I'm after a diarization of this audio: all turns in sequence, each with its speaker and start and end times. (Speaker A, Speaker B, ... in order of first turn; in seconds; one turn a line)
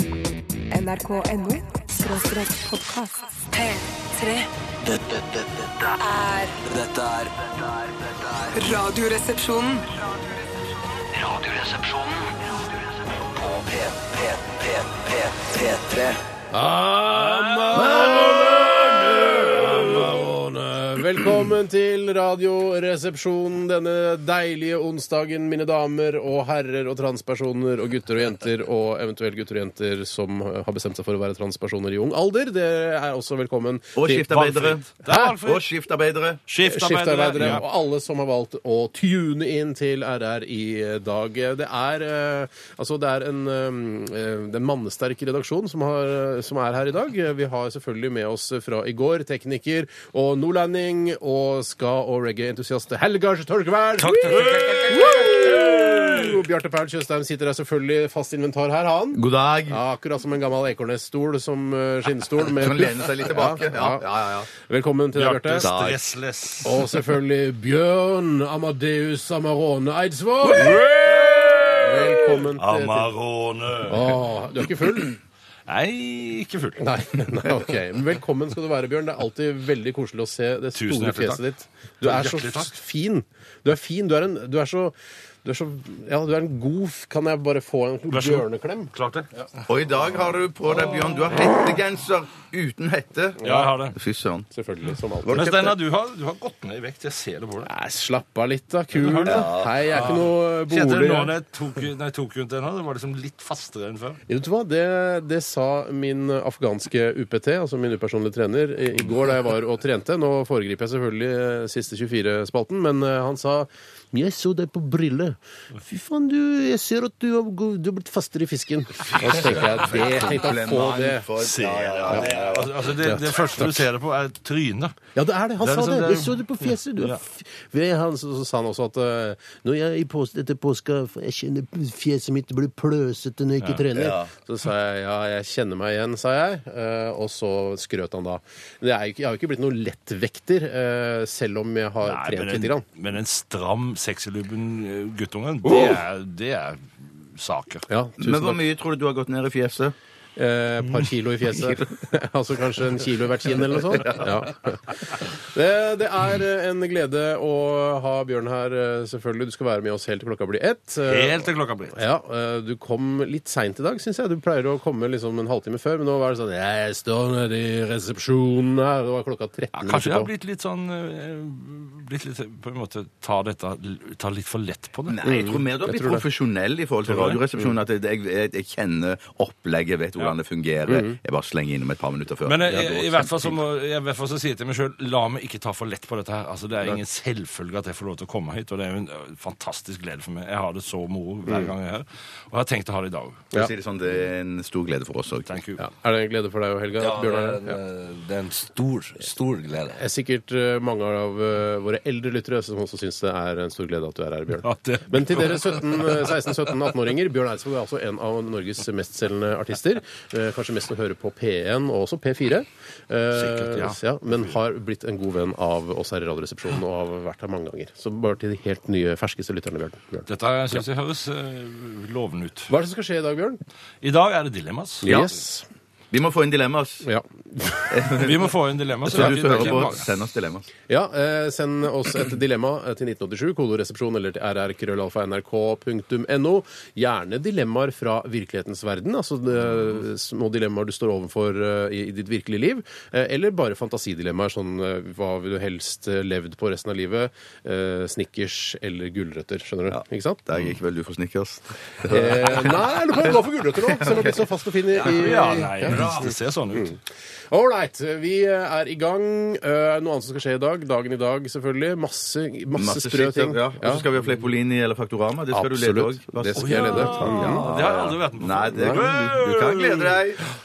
Speaker A: 0.7-3.2
Speaker B: 3.5-9.9
Speaker B: 11.2-12.3
Speaker B: 13.4-16.2
Speaker C: 16.5-34.2
Speaker D: 17.1-19.9
Speaker E: 17.7-18.6
Speaker E: 34.0-36.4
Speaker D: 34.2-35.6
Speaker D: 36.5-37.6
Speaker C: 36.6-65.7
Speaker F: 54.0-55.1
Speaker D: 54.4-56.3
Speaker E: 59.1-59.8
Speaker E: 62.5-64.5
Speaker D: 65.2-66.8
Speaker E: 65.6-66.1
Speaker C: 66.6-73.1
Speaker D: 70.5-74.3
Speaker C: 73.9-75.2
Speaker D: 75.7-76.9
Speaker C: 76.8-88.9
Speaker D: 80.8-81.4
Speaker D: 82.0-82.7
Speaker D: 88.1-89.5
Speaker E: 89.7-94.5
Speaker C: 93.4-93.7
Speaker D: 93.4-94.0
Speaker C: 94.5-95.4
Speaker E: 95.2-95.8
Speaker D: 95.3-97.7
Speaker C: 97.6-101.3
Speaker D: 99.0-104.2
Speaker E: 99.2-99.8
Speaker C: 104.3-121.3
Speaker D: 119.0-119.8
Speaker E: 119.4-122.9
Speaker D: 121.4-125.0
Speaker C: 123.0-123.6
Speaker C: 125.2-142.8
Speaker D: 125.6-127.2
Speaker E: 133.9-134.3
Speaker D: 142.0-147.9
Speaker E: 145.7-146.0
Speaker C: 147.9-148.6
Speaker E: 148.2-149.9
Speaker C: 150.4-170.3
Speaker E: 153.9-154.2
Speaker D: 161.1-162.0
Speaker D: 169.8-175.2
Speaker E: 175.1-183.6
Speaker C: 175.2-176.2
Speaker D: 177.1-177.4
Speaker C: 180.9-181.2
Speaker D: 182.4-193.5
Speaker E: 193.5-195.5
Speaker D: 195.5-195.8
Speaker C: 195.8-197.8
Speaker F: 197.0-200.0
Speaker C: 199.9-220.3
Speaker D: 204.6-206.3
Speaker D: 213.3-214.5
Speaker D: 220.3-222.7
Speaker C: 222.7-223.6
Speaker D: 224.0-225.1
Speaker C: 225.0-225.7
Speaker E: 225.0-225.3
Speaker E: 226.1-227.1
Speaker C: 227.0-228.0
Speaker E: 227.7-228.5
Speaker D: 228.1-230.1
Speaker E: 229.1-230.7
Speaker C: 229.2-229.8
Speaker C: 230.9-250.4
Speaker E: 249.9-253.3
Speaker C: 252.1-257.0
Speaker E: 253.8-254.4
Speaker D: 255.0-256.9
Speaker F: 255.9-256.3
Speaker C: 257.5-264.1
Speaker E: 262.7-270.4
Speaker C: 265.5-267.7
Speaker D: 266.6-270.2